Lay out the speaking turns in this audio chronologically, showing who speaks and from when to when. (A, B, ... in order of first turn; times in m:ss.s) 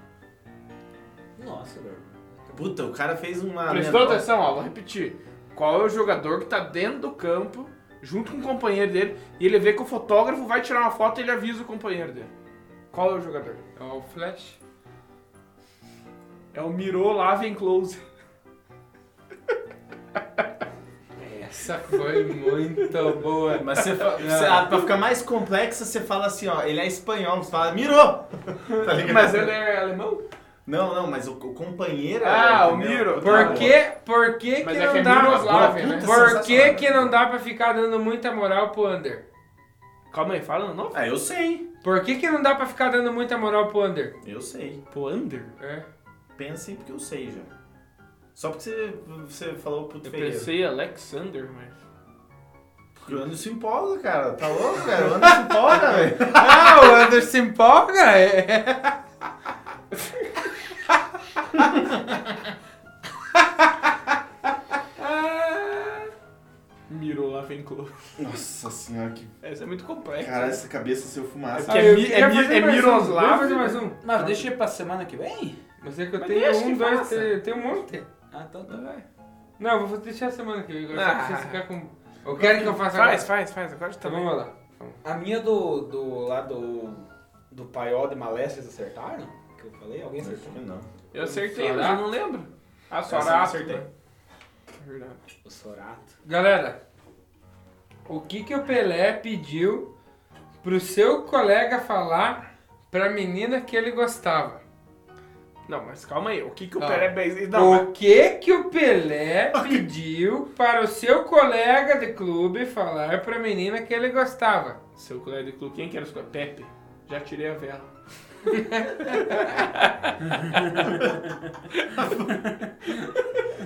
0:01.4-0:02.7 A
0:02.5-0:04.3 B
0:03.7-0:12.3 C
0:12.9-0:13.6 C
0:13.8-0:14.6 D
0:16.5-0:18.0 C
0:21.2-0:24.7 D
0:23.5-0:29.5 B
0:28.7-0:30.2 C
0:30.7-0:33.8 B
0:32.2-0:33.8 C
0:33.2-0:39.2 D
0:34.6-0:36.1 C
0:35.4-0:37.2 B
0:40.1-0:41.0 C
0:40.9-0:41.6 B
0:41.8-0:44.2 D
0:44.2-0:44.8 B
0:44.9-0:45.6 C
0:45.6-0:45.9 D
0:46.4-0:47.5 B
0:48.4-0:50.5 B
0:50.0-0:51.8 C
0:53.0-0:57.0 B
0:55.0-0:55.5 D
0:56.3-0:59.0 D
1:05.1-1:06.0 C
1:06.9-1:07.9 C
1:08.2-1:09.3 B
1:09.4-1:10.6 C
1:10.2-1:11.9 B
1:11.6-1:13.8 C
1:11.7-1:14.0 D
1:14.0-1:15.6 A
1:15.8-1:18.1 D
1:16.2-1:17.8 C
1:18.3-1:18.8 A
1:18.7-1:19.0 D
1:19.6-1:23.3 D
1:20.9-1:21.6 C
1:22.4-1:24.4 C
1:24.0-1:25.0 D
1:25.0-1:30.6 A
1:30.2-1:30.9 B
1:31.1-1:33.8 C
1:31.3-1:32.0 D
1:33.1-1:33.8 B
1:34.8-1:35.2 C
1:35.4-1:36.1 A
1:36.2-1:36.8 D
1:38.1-1:39.9 D
1:40.6-1:44.6 D
1:45.7-1:47.8 C
1:46.8-1:54.8 D
1:49.5-1:49.9 B
1:55.0-1:57.9 C
1:58.5-2:00.1 D
1:59.3-1:59.6 C
2:00.2-2:01.6 A
2:02.0-2:02.4 B
2:02.3-2:03.1 A